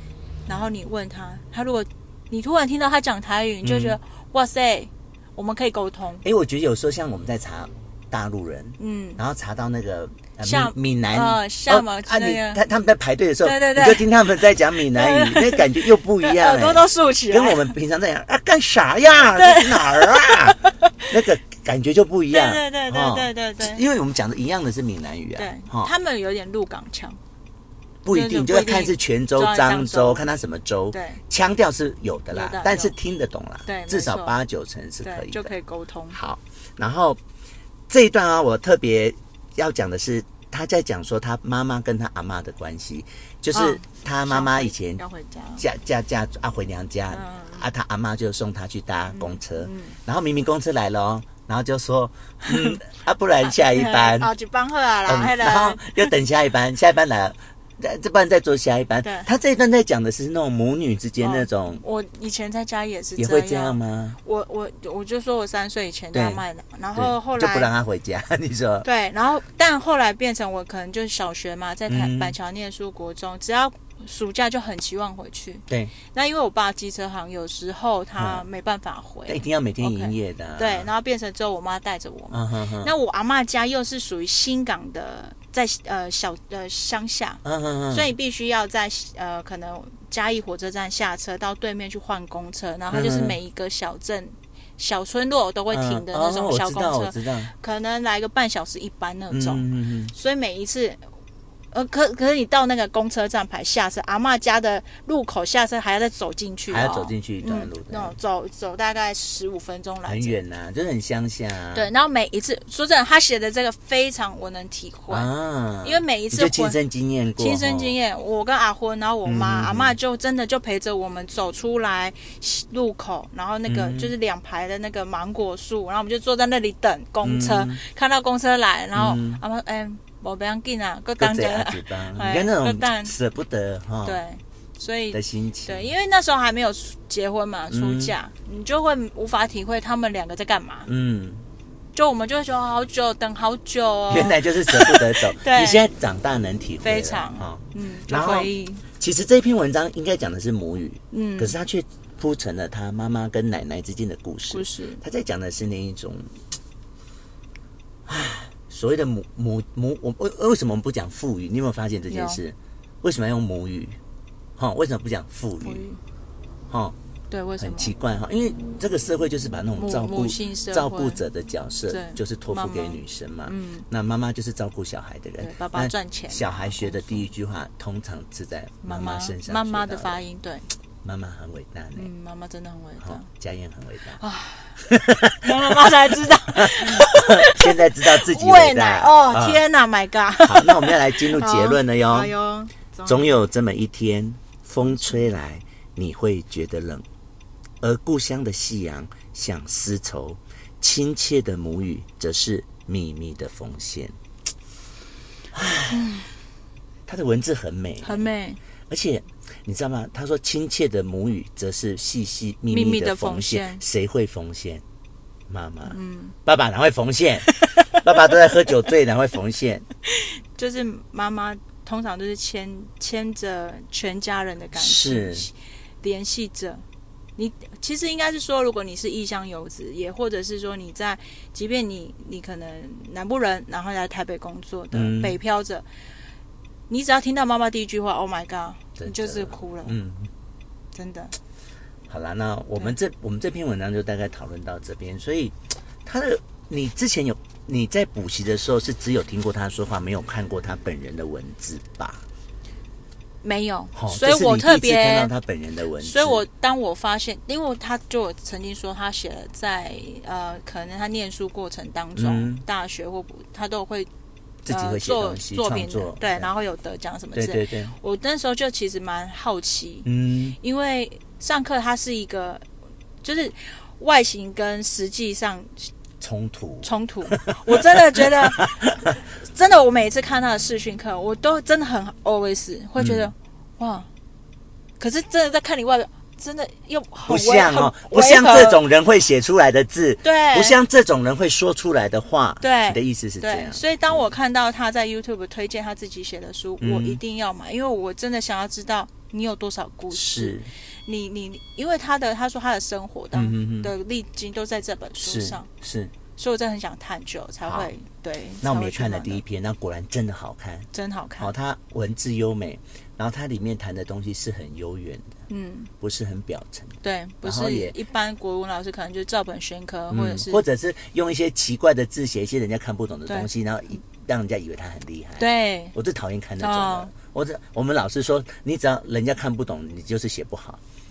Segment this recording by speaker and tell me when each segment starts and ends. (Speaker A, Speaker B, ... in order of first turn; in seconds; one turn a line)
Speaker A: 0.5-6.2
Speaker B: 3.6-4.0
Speaker B: 6.2-25.9
Speaker A: 8.8-9.2
Speaker A: 10.4-12.6
Speaker A: 13.4-17.7
Speaker A: 19.3-21.1
Speaker A: 22.3-23.8
Speaker A: 25.4-27.2
Speaker B: 28.0-35.5
Speaker A: 28.1-30.2
Speaker A: 30.9-31.2
Speaker A: 32.3-32.9
Speaker A: 33.6-34.4
Speaker A: 35.0-36.2
Speaker B: 36.1-37.2
Speaker B: 37.9-45.0
Speaker A: 43.5-45.6
Speaker B: 45.6-54.3
Speaker A: 47.1-47.6
Speaker A: 49.1-50.0
Speaker A: 52.4-52.8
Speaker A: 53.4-56.1
Speaker B: 55.0-61.8
Speaker A: 59.0-59.3
Speaker A: 61.2-67.7
Speaker B: 63.2-64.2
Speaker B: 66.1-66.4
Speaker B: 66.9-68.8
Speaker A: 68.8-101.0
Speaker B: 71.9-72.3
Speaker B: 78.2-78.5
Speaker B: 79.2-80.9
Speaker B: 82.3-82.9
Speaker B: 87.4-88.1
Speaker B: 92.9-93.4
Speaker B: 95.7-97.5
Speaker B: 99.3-100.1
Speaker A: 101.7-110.4
Speaker B: 106.7-108.1
Speaker B: 110.0-111.9
Speaker A: 111.7-115.3
Speaker B: 115.1-117.9
Speaker A: 115.8-116.8
Speaker A: 117.4-133.1
Speaker B: 119.2-120.0
Speaker B: 123.7-124.1
Speaker B: 127.2-127.8
Speaker B: 128.9-129.4
Speaker B: 131.2-134.2
Speaker A: 134.0-140.9
Speaker B: 135.1-135.9
Speaker B: 137.7-138.1
Speaker B: 140.8-141.4
Speaker A: 141.9-145.8
Speaker B: 144.1-156.4
Speaker A: 146.8-148.8
Speaker A: 151.1-151.5
Speaker A: 154.5-155.0
Speaker B: 158.1-164.0
Speaker A: 162.1-162.4
Speaker B: 164.6-165.8
Speaker A: 165.6-166.0
Speaker B: 166.7-166.9
Speaker A: 167.3-167.9
Speaker B: 167.6-180.2
Speaker A: 169.7-171.2
Speaker A: 171.9-173.8
Speaker A: 175.4-177.3
Speaker A: 178.8-180.7
Speaker B: 181.0-182.1
Speaker A: 181.9-183.3
Speaker B: 183.0-184.2
Speaker A: 184.2-184.8
Speaker B: 184.8-185.8
Speaker A: 185.4-193.4
Speaker B: 186.5-189.6
Speaker B: 190.4-192.3
Speaker B: 193.1-197.0
Speaker A: 194.8-195.1
Speaker B: 197.8-204.1
Speaker B: 205.5-206.2
Speaker A: 205.9-206.3
Speaker B: 207.1-208.3
Speaker A: 208.0-208.6
Speaker B: 208.9-214.8
Speaker A: 212.7-213.8
Speaker B: 215.5-219.8
Speaker A: 215.9-216.3
Speaker A: 217.5-218.3
Speaker A: 220.1-226.8
Speaker B: 224.8-225.5
Speaker A: 227.4-235.8
Speaker B: 234.9-235.4
Speaker A: 236.9-240.0
Speaker B: 239.0-240.3
Speaker A: 240.9-241.3
Speaker B: 242.1-252.2
Speaker A: 253.4-255.3
Speaker B: 253.9-256.4
Speaker A: 256.0-264.1
Speaker B: 262.1-262.6
Speaker B: 264.6-266.5
Speaker A: 264.7-270.1
Speaker B: 267.3-267.9
Speaker B: 270.0-270.6
Speaker A: 270.6-272.6
Speaker A: 273.2-275.9
Speaker B: 276.2-279.1
Speaker A: 276.8-284.1
Speaker B: 283.0-283.3
Speaker A: 285.0-288.8
Speaker B: 287.3-294.2
Speaker A: 290.2-290.8
Speaker A: 292.6-305.7
Speaker B: 296.8-297.2
Speaker B: 300.1-300.7
Speaker B: 303.3-303.9
Speaker B: 305.2-306.1
Speaker A: 306.4-309.4
Speaker B: 307.6-307.9
Speaker B: 308.6-310.9
Speaker A: 310.9-311.5
Speaker B: 311.4-315.4
Speaker A: 315.5-315.9
Speaker B: 316.0-317.9
Speaker A: 317.0-320.6
Speaker B: 320.1-330.8
Speaker A: 325.4-325.9
Speaker A: 326.6-327.1